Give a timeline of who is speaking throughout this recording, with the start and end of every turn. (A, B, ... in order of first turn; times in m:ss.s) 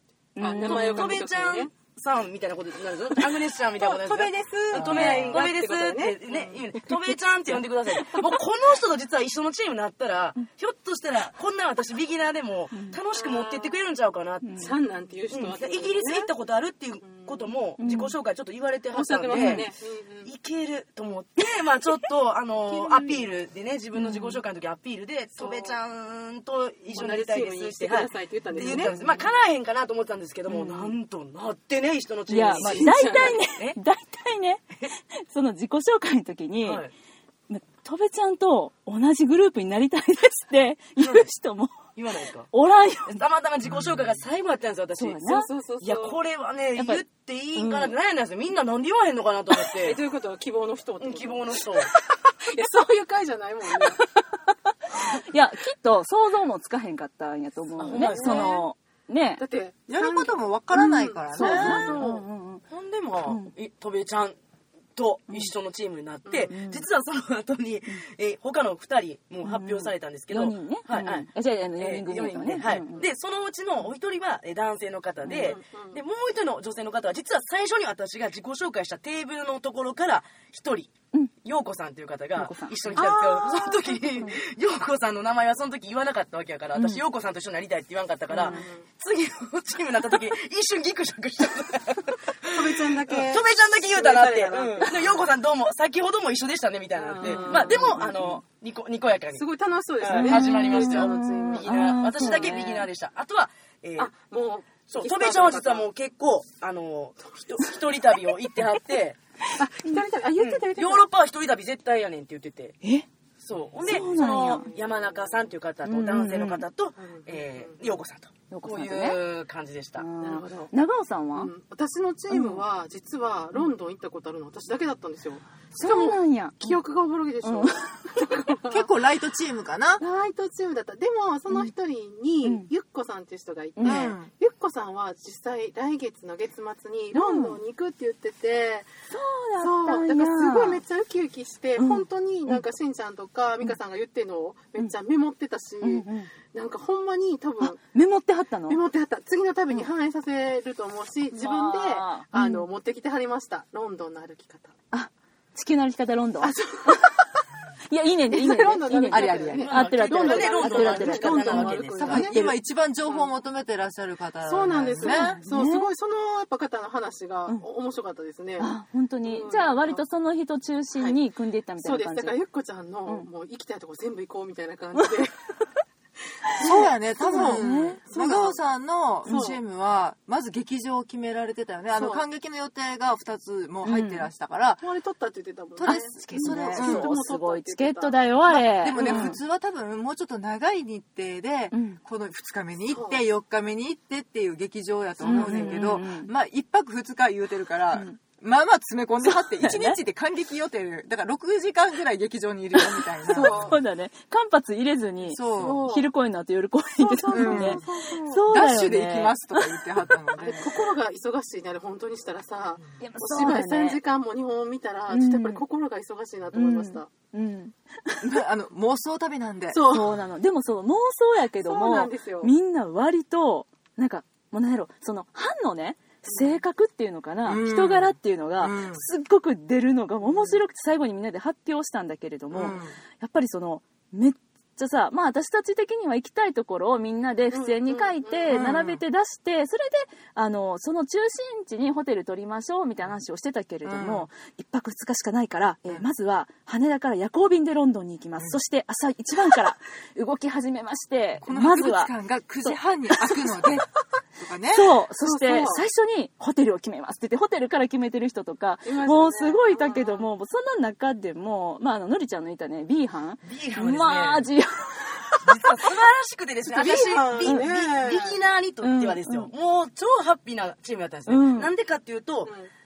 0:00.4-0:01.2 A
0:00.4-0:01.7 B
0:00.5-0:14.5 C
0:03.8-0:06.6 B
0:04.7-0:05.4 A
0:13.1-0:13.8 B
0:14.4-0:14.7 A
0:14.6-0:16.3 B
0:15.3-0:19.7 C
0:17.0-0:17.5 B
0:17.8-0:18.2 A
0:18.9-0:20.3 B
0:19.3-0:19.7 A
0:20.2-0:33.8 C
0:24.0-0:24.4 A
0:25.4-0:25.8 B
0:26.9-0:29.2 B
0:28.6-0:29.2 A
0:30.5-0:30.9 A
0:32.3-0:36.8 A
0:32.6-0:33.4 B
0:36.6-0:36.9 C
0:37.5-0:41.9 A
0:41.0-0:41.3 C
0:42.0-0:42.5 C
0:42.5-0:43.2 A
0:43.1-0:50.0 C
0:45.0-0:45.5 A
0:45.3-0:46.2 B
0:46.8-0:47.0 A
0:47.6-0:48.0 A
0:49.8-0:54.0 B
0:51.0-0:51.9 C
0:54.9-0:59.4 A
0:57.8-0:58.6 C
0:57.9-0:58.6 B
0:59.4-1:02.2 B
0:59.9-1:02.0 D
1:00.7-1:02.6 A
1:01.7-1:02.1 C
1:02.7-1:04.4 C
1:05.0-1:20.9 C
1:06.3-1:06.5 B
1:06.5-1:06.8 A
1:09.4-1:13.0 A
1:15.2-1:15.6 A
1:15.3-1:16.0 B
1:21.4-1:39.4 C
1:22.4-1:23.1 A
1:22.9-1:24.4 B
1:26.8-1:27.0 A
1:28.3-1:28.7 A
1:28.3-1:28.9 B
1:32.4-1:35.2 B
1:37.0-1:38.2 B
1:37.2-1:38.4 A
1:39.4-1:42.6 B
1:40.0-1:44.1 C
1:40.1-1:42.9 A
1:44.0-1:45.9 B
1:44.9-1:49.2 C
1:49.6-1:51.0 B
1:50.4-1:52.8 C
1:53.4-2:00.0 C
1:53.8-1:54.6 A
1:53.9-1:55.5 B
1:55.8-1:56.6 A
1:57.0-1:57.8 B
1:58.5-1:59.2 A
2:00.0-2:01.5 A
2:00.2-2:00.7 B
2:01.4-2:08.9 B
2:02.3-2:02.6 A
2:05.7-2:06.8 A
2:07.4-2:08.4 A
2:08.7-2:10.0 D
2:10.0-2:18.9 B
2:12.4-2:12.7 A
2:13.8-2:14.2 A
2:13.8-2:14.3 D
2:17.1-2:17.6 A
2:19.1-2:20.8 A
2:19.6-2:27.8 B
2:21.8-2:22.6 A
2:25.8-2:26.3 A
2:27.6-2:28.8 A
2:28.7-2:34.7 B
2:31.3-2:32.7 A
2:34.9-2:37.2 A
2:36.4-2:37.4 B
2:37.9-2:42.3 A
2:38.3-2:42.5 B
2:39.1-2:39.6 D
2:39.6-2:42.5 C
2:42.0-2:45.4 D
2:44.4-2:50.0 B
2:45.0-2:45.9 A
2:48.6-2:52.4 A
2:51.8-2:55.6 B
2:56.5-2:58.6 B
2:56.6-3:04.8 D
2:57.2-2:58.0 A
2:59.2-2:59.6 B
3:02.0-3:02.2 B
3:03.8-3:04.3 A
3:04.8-3:08.3 B
3:05.8-3:07.1 D
3:05.8-3:09.4 A
3:08.5-3:23.7 D
3:08.9-3:09.4 B
3:11.7-3:12.0 A
3:12.9-3:13.2 B
3:15.2-3:16.3 A
3:15.2-3:15.9 B
3:17.9-3:18.2 A
3:19.2-3:20.0 A
3:22.8-3:29.8 A
3:23.3-3:23.8 B
3:25.3-3:25.8 D
3:25.6-3:26.1 B
3:27.0-3:28.4 B
3:27.3-3:27.8 D
3:28.4-3:30.7 D
3:30.4-3:37.1 B
3:33.0-3:34.0 A
3:35.1-3:35.6 A
3:36.5-3:38.2 A
3:38.2-3:39.8 D
3:39.7-3:40.2 B
3:39.9-4:12.1 A
3:41.6-3:42.5 B
3:46.3-3:46.6 B
3:47.4-3:49.0 D
3:50.3-3:50.6 B
3:52.5-3:52.9 D
3:57.5-3:58.6 B
3:58.5-3:59.0 D
4:03.8-4:04.3 D
4:11.4-4:14.9 D
4:14.7-4:25.4 A
4:15.2-4:15.8 B
4:18.8-4:20.3 B
4:23.4-4:24.5 C
4:25.4-4:32.5 C
4:26.6-4:28.4 B
4:27.4-4:27.7 A
4:28.8-4:29.5 A
4:31.3-4:31.7 A
4:32.5-4:32.7 B